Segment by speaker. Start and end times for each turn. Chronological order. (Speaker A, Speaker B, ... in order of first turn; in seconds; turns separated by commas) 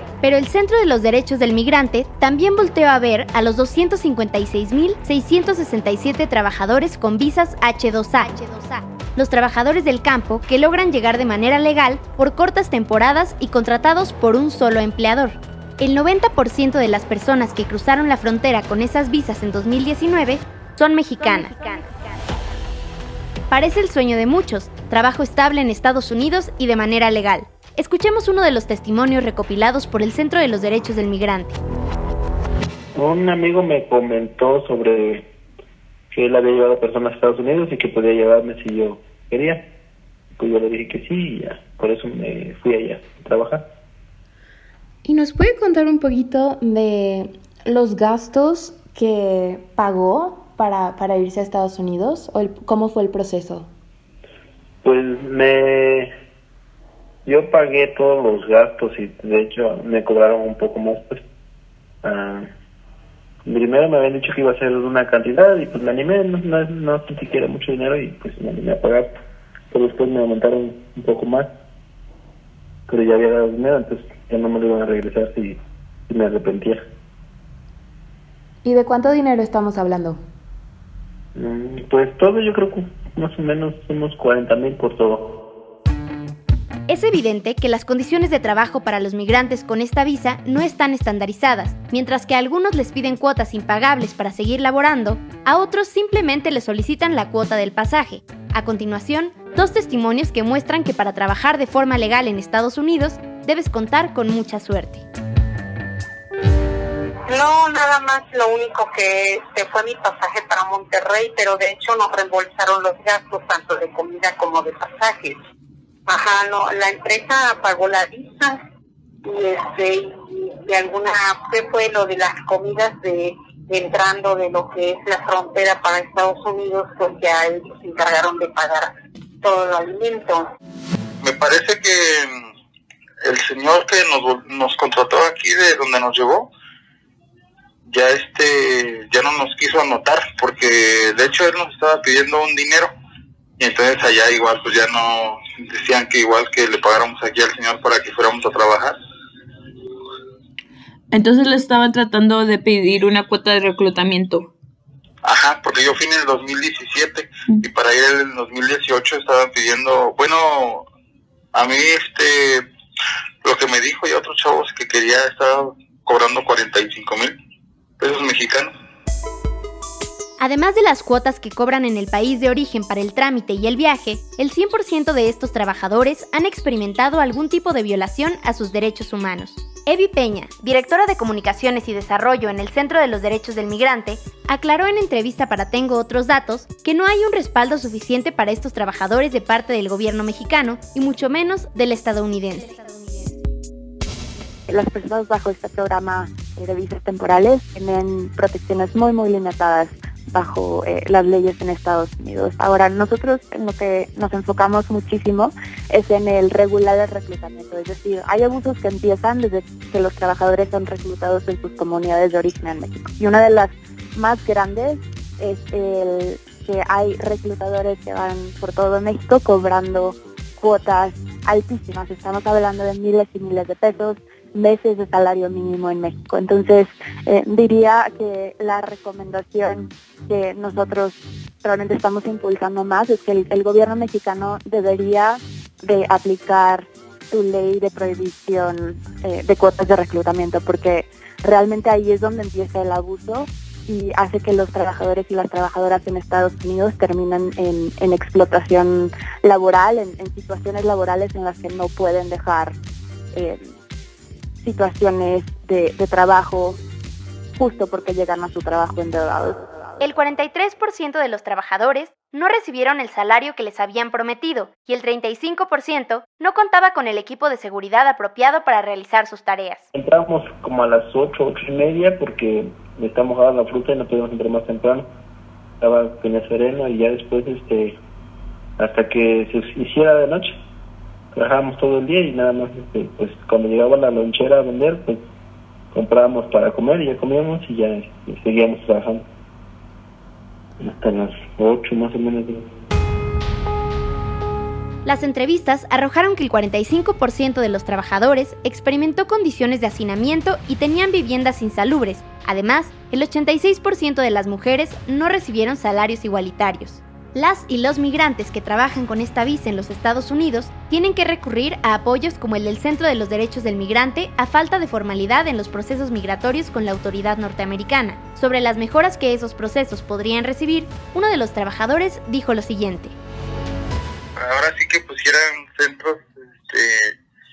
Speaker A: 0.2-8.6, Speaker A: 9.1-21.9, Speaker A: 23.5-31.6, Speaker B: 33.0-35.3, Speaker B: 36.1-39.7, Speaker B: 40.4-43.7, Speaker C: 45.0-53.7, Speaker B: 54.8-56.1, Speaker B: 57.2-61.2, Speaker B: 62.0-62.5, Speaker B: 63.5-69.2, Speaker B: 69.7-71.5, Speaker B: 72.9-76.9, Speaker C: 78.7-80.2, Speaker B: 81.4-85.3, Speaker A: 86.9-105.0, Speaker D: 107.3-115.4, Speaker D: 116.1-118.6, Speaker D: 119.2-128.9, Speaker D: 129.4-130.4, Speaker E: 131.2-132.5, Speaker E: 133.2-136.5, Speaker E: 137.9-142.9, Speaker E: 143.6-148.9, Speaker F: 151.1-154.5, Speaker E: 155.2-160.9, Speaker E: 161.5-162.7, Speaker E: 163.4-167.3, Speaker E: 168.0-168.7, Speaker A: 170.4-192.7, Speaker G: 194.7-252.8, Speaker G: 253.3-253.7, Speaker G: 254.6-256.8, Speaker G: 257.6-259.7, Speaker A: 260.0-269.9, Speaker B: 269.9-275.1, Speaker B: 275.8-278.0, Speaker B: 278.8-280.6, Speaker B: 281.3-285.2, Speaker B: 285.9-289.3, Speaker B: 290.8-292.6, Speaker A: 295.1-323.1, Speaker E: 324.4-327.1